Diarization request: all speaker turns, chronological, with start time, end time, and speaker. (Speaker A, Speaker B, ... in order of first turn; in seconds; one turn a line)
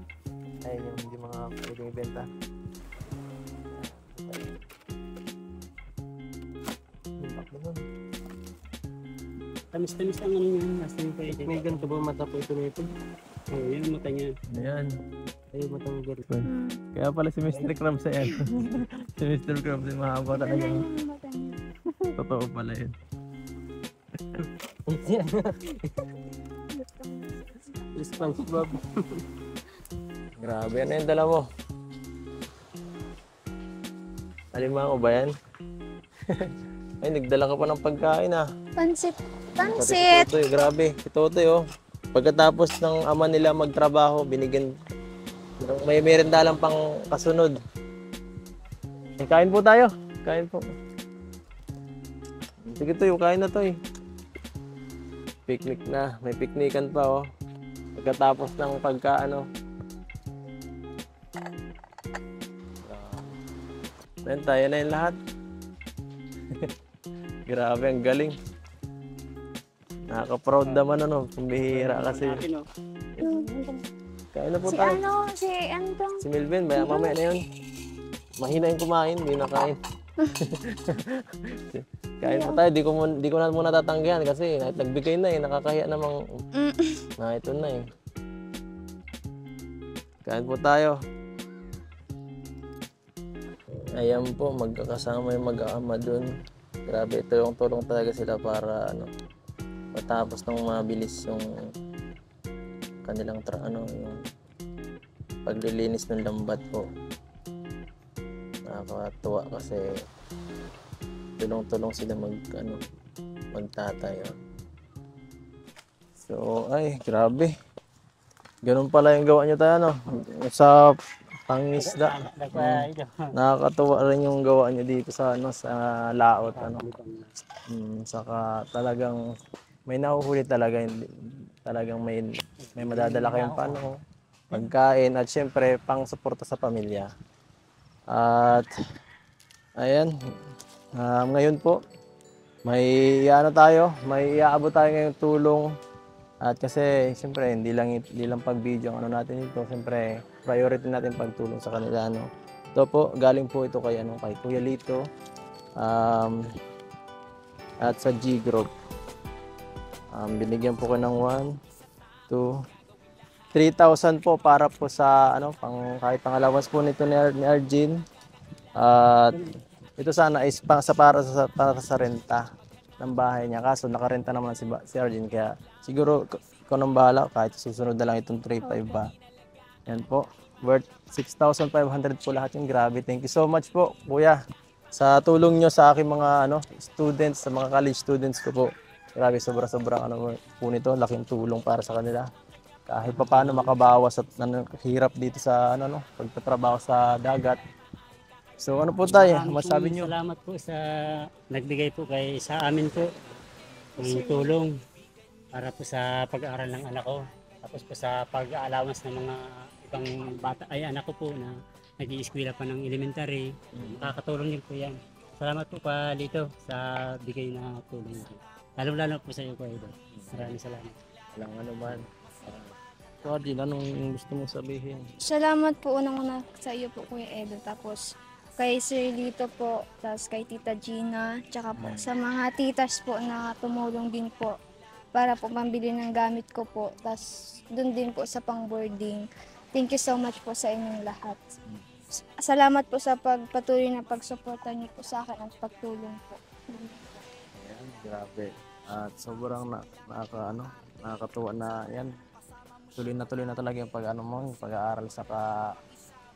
Speaker A: 0.6-2.3
Speaker A: 3.7-4.6
Speaker A: 7.2-7.8
Speaker B: 9.7-11.6
Speaker C: 11.3-12.9
Speaker B: 13.5-14.3
Speaker A: 14.5-15.0
Speaker C: 15.5-16.2
Speaker A: 16.3-20.8
Speaker D: 16.4-16.8
Speaker D: 18.2-18.6
Speaker D: 20.3-21.6
Speaker A: 22.1-22.9
Speaker C: 24.4-26.1
Speaker D: 26.7-27.8
Speaker C: 27.9-29.2
Speaker A: 30.4-31.4
Speaker A: 34.5-35.3
Speaker A: 36.3-38.4
Speaker D: 38.8-40.3
Speaker A: 39.6-41.6
Speaker A: 42.1-44.7
Speaker A: 45.6-47.5
Speaker A: 49.2-50.7
Speaker A: 52.6-53.8
Speaker A: 55.5-57.2
Speaker A: 58.0-59.4
Speaker A: 62.8-63.3
Speaker A: 64.2-65.1
Speaker A: 67.5-68.3
Speaker A: 70.1-72.4
Speaker B: 71.6-72.7
Speaker D: 73.2-73.5
Speaker B: 73.2-73.8
Speaker A: 74.3-75.0
Speaker D: 74.7-77.1
Speaker A: 76.2-77.4
Speaker A: 78.4-79.8
Speaker A: 80.4-86.2
Speaker D: 82.2-82.6
Speaker D: 86.5-87.0
Speaker A: 87.2-87.9
Speaker A: 90.2-91.0
Speaker A: 93.9-96.3
Speaker A: 96.9-99.1
Speaker A: 99.9-101.5
Speaker A: 103.0-104.2
Speaker A: 105.4-106.8
Speaker A: 108.7-109.8
Speaker A: 111.4-112.8
Speaker A: 113.5-114.3
Speaker A: 116.2-117.5
Speaker A: 118.6-121.0
Speaker A: 121.5-126.8
Speaker B: 121.8-123.3
Speaker B: 126.5-127.3
Speaker A: 127.7-129.2
Speaker A: 129.9-131.1
Speaker A: 131.6-134.0
Speaker B: 132.6-133.8
Speaker A: 134.5-137.1
Speaker A: 138.1-138.7
Speaker A: 139.8-140.1
Speaker A: 141.0-141.8
Speaker A: 142.7-145.7
Speaker A: 146.4-155.0
Speaker A: 155.8-156.4
Speaker A: 157.8-158.7
Speaker A: 160.1-161.5
Speaker A: 163.5-167.9
Speaker A: 168.8-169.3
Speaker A: 170.0-172.4
Speaker A: 173.0-179.1
Speaker D: 178.6-178.9
Speaker A: 179.9-184.4
Speaker A: 184.9-192.3
Speaker A: 192.9-197.6
Speaker B: 193.1-193.7
Speaker A: 198.6-200.1
Speaker B: 199.1-200.8
Speaker B: 201.5-203.2
Speaker D: 204.0-204.5
Speaker B: 204.0-204.7
Speaker B: 205.5-220.9
Speaker A: 213.7-214.1
Speaker A: 220.2-220.6
Speaker A: 221.3-222.7
Speaker A: 223.2-225.1
Speaker D: 225.2-228.0
Speaker D: 228.6-234.6
Speaker A: 231.8-232.1
Speaker D: 235.1-241.4
Speaker D: 242.2-247.1
Speaker A: 247.5-252.1
Speaker A: 252.9-255.7